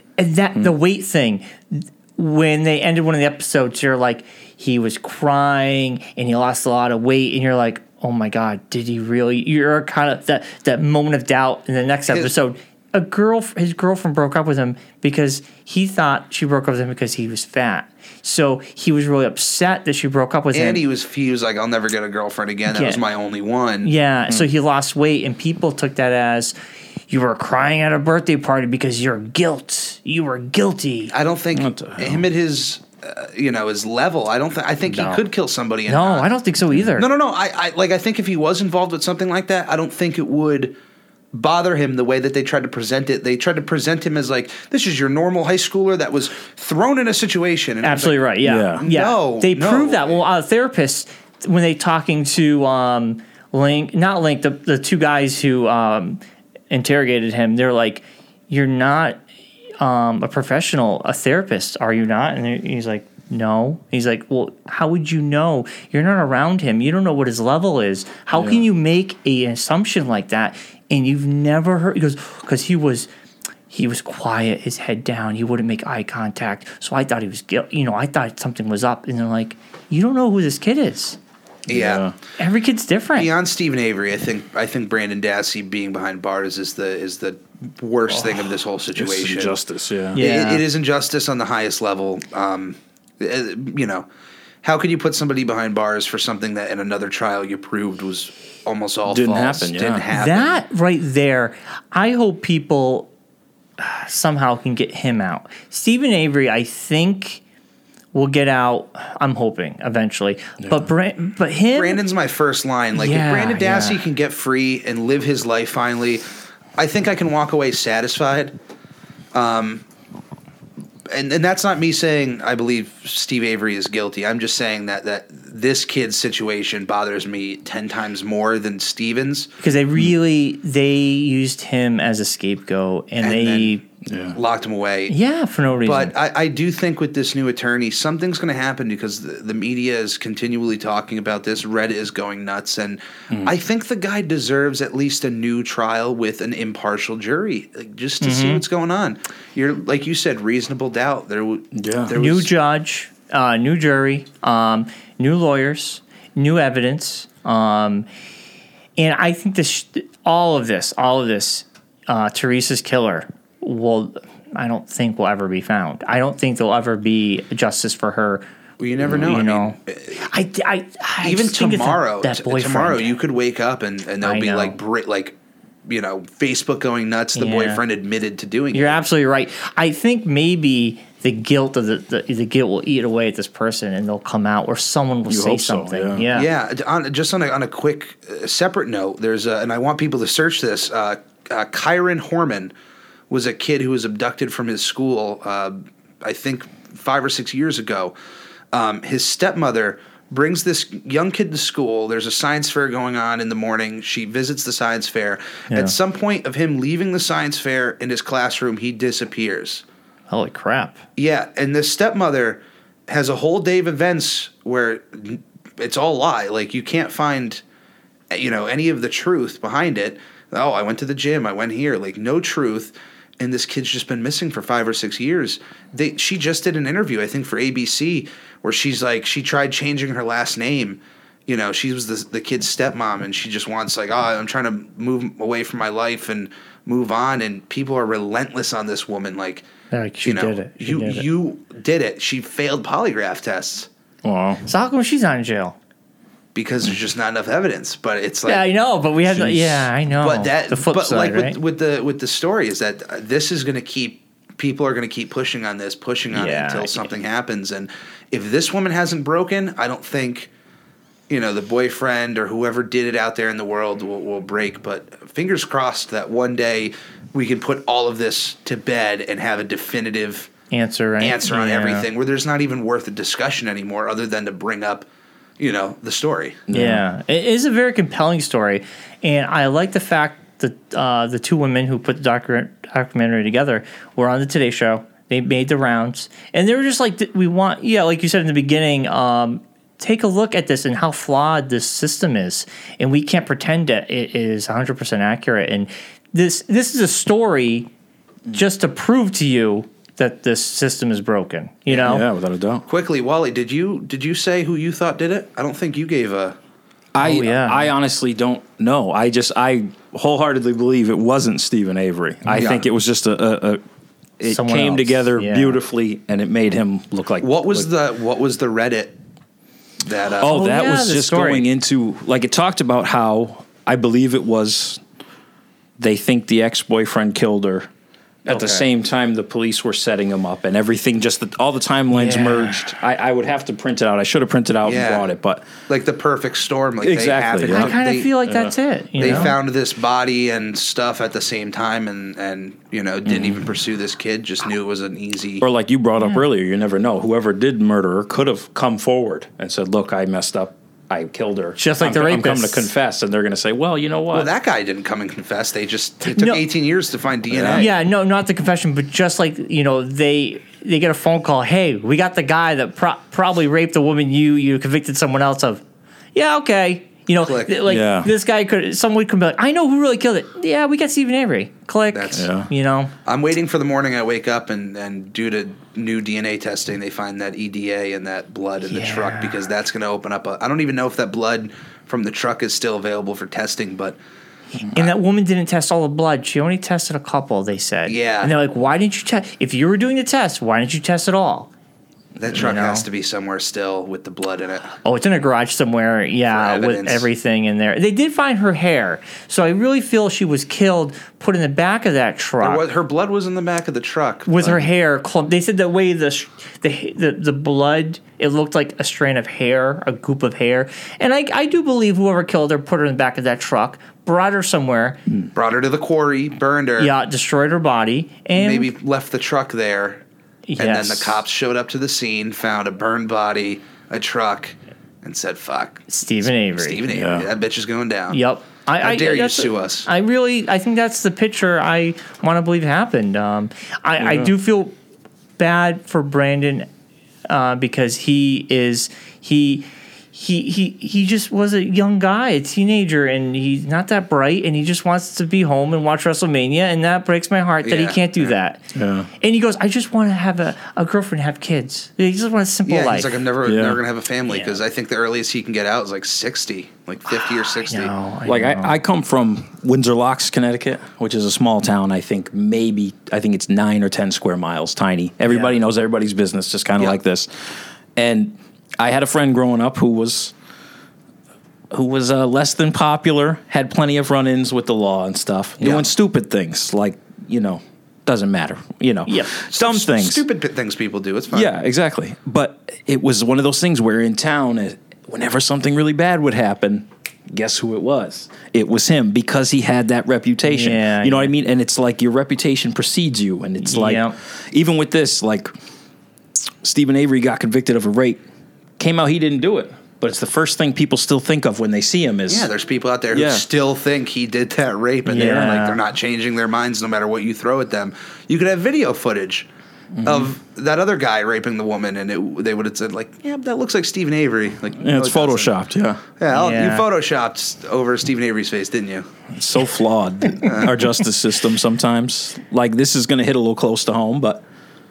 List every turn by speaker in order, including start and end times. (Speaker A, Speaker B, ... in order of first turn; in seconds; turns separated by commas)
Speaker A: 0.2-20.8, Speaker B: 12.1-12.3, Speaker B: 20.5-23.9, Speaker A: 22.7-23.0, Speaker A: 23.8-26.6, Speaker A: 27.1-31.1, Speaker B: 31.1-36.3, Speaker C: 31.5-32.2, Speaker A: 34.9-35.2, Speaker A: 35.9-37.1, Speaker B: 37.0-40.7, Speaker B: 41.3-50.2, Speaker A: 47.8-59.2, Speaker C: 48.4-48.8, Speaker A: 59.8-73.1, Speaker C: 68.3-68.7, Speaker A: 73.7-81.2, Speaker C: 81.7-82.1, Speaker B: 81.7-82.0, Speaker A: 82.4-83.3, Speaker B: 83.2-89.6, Speaker A: 88.1-88.5, Speaker C: 88.9-90.2, Speaker A: 90.1-90.6, Speaker B: 90.1-94.0, Speaker B: 94.6-100.6, Speaker C: 99.1-100.0, Speaker A: 100.1-103.1, Speaker A: 103.8-107.4, Speaker A: 108.1-112.0, Speaker C: 110.6-110.9, Speaker B: 111.7-116.2, Speaker A: 112.9-114.0, Speaker B: 116.8-118.5, Speaker B: 119.3-119.8, Speaker B: 121.1-129.5, Speaker A: 129.6-133.8, Speaker B: 133.2-133.8, Speaker C: 134.0-134.4, Speaker B: 134.3-135.1, Speaker A: 135.1-136.1, Speaker B: 135.8-152.5, Speaker A: 148.2-148.6, Speaker C: 151.7-152.1, Speaker A: 152.1-158.1, Speaker A: 159.0-168.4, Speaker B: 168.8-170.2, Speaker C: 169.0-169.4, Speaker A: 169.1-173.2, Speaker B: 171.2-179.0, Speaker A: 174.2-174.8, Speaker A: 177.3-177.8, Speaker A: 178.7-186.5, Speaker C: 185.3-186.3, Speaker B: 186.3-192.7, Speaker B: 193.3-198.1, Speaker B: 198.7-209.8, Speaker A: 210.3-211.0, Speaker B: 211.2-217.6, Speaker B: 218.3-239.6, Speaker A: 239.9-241.2, Speaker B: 240.2-243.9, Speaker C: 244.2-244.6, Speaker A: 244.7-245.8, Speaker B: 246.5-248.6, Speaker A: 248.4-251.6, Speaker C: 249.3-249.9, Speaker B: 250.2-260.5, Speaker A: 256.3-257.1, Speaker B: 261.3-270.5, Speaker A: 270.7-272.1, Speaker B: 271.2-275.1, Speaker B: 275.6-276.6, Speaker C: 276.7-277.0, Speaker A: 276.7-297.9, Speaker A: 298.5-302.2, Speaker C: 301.9-302.8, Speaker B: 302.9-306.6, Speaker C: 307.1-313.8, Speaker A: 307.2-307.9, Speaker B: 312.6-312.8, Speaker C: 314.4-317.9, Speaker A: 314.4-315.8, Speaker B: 317.4-319.2, Speaker B: 320.0-320.6, Speaker C: 320.4-325.0, Speaker A: 320.4-321.7, Speaker C: 326.0-327.9, Speaker C: 328.4-335.7, Speaker A: 328.5-328.9, Speaker A: 332.1-332.8, Speaker B: 334.8-335.3, Speaker B: 335.9-338.3, Speaker C: 337.0-339.5, Speaker A: 337.7-339.5, Speaker B: 339.2-345.6, Speaker C: 343.2-343.6, Speaker C: 345.6-354.5, Speaker A: 351.8-352.9, Speaker B: 354.3-357.9, Speaker A: 356.2-356.6, Speaker C: 357.5-357.9, Speaker A: 357.7-365.8, Speaker A: 366.3-373.1, Speaker B: 367.4-367.8, Speaker C: 367.9-368.3, Speaker B: 372.1-372.4, Speaker C: 372.3-372.7, Speaker B: 373.2-384.2, Speaker A: 378.9-379.6, Speaker A: 384.8-391.7, Speaker B: 388.1-388.5, Speaker B: 392.4-394.9, Speaker A: 392.5-393.0, Speaker A: 395.0-402.9, Speaker B: 396.5-397.3, Speaker B: 402.6-404.8, Speaker A: 404.4-415.2, Speaker B: 415.5-417.1, Speaker A: 417.0-418.9, Speaker B: 418.5-420.2, Speaker A: 420.7-421.4, Speaker B: 420.8-428.4, Speaker A: 426.1-427.0, Speaker C: 427.1-427.5, Speaker A: 428.3-434.9, Speaker B: 429.0-430.1, Speaker C: 434.2-434.5, Speaker A: 435.6-436.9, Speaker A: 437.5-448.8, Speaker B: 447.8-448.5, Speaker C: 448.9-449.3, Speaker A: 449.4-453.3, Speaker B: 452.9-458.1, Speaker C: 453.6-454.0, Speaker A: 454.5-454.8, Speaker A: 457.3-459.0, Speaker C: 458.4-467.5, Speaker A: 465.5-465.7, Speaker C: 468.1-470.5, Speaker C: 471.9-480.4, Speaker B: 475.8-476.1, Speaker A: 479.3-479.5, Speaker B: 479.7-481.7, Speaker C: 481.5-495.7, Speaker A: 490.6-491.5, Speaker A: 493.8-494.3, Speaker C: 496.8-498.4, Speaker C: 499.0-502.7, Speaker B: 502.5-509.7, Speaker C: 503.3-503.6, Speaker A: 505.3-506.0, Speaker C: 510.1-510.5, Speaker B: 510.2-515.7, Speaker C: 515.0-516.2, Speaker B: 516.4-519.3, Speaker A: 516.5-517.0, Speaker C: 519.5-524.6, Speaker B: 520.6-521.0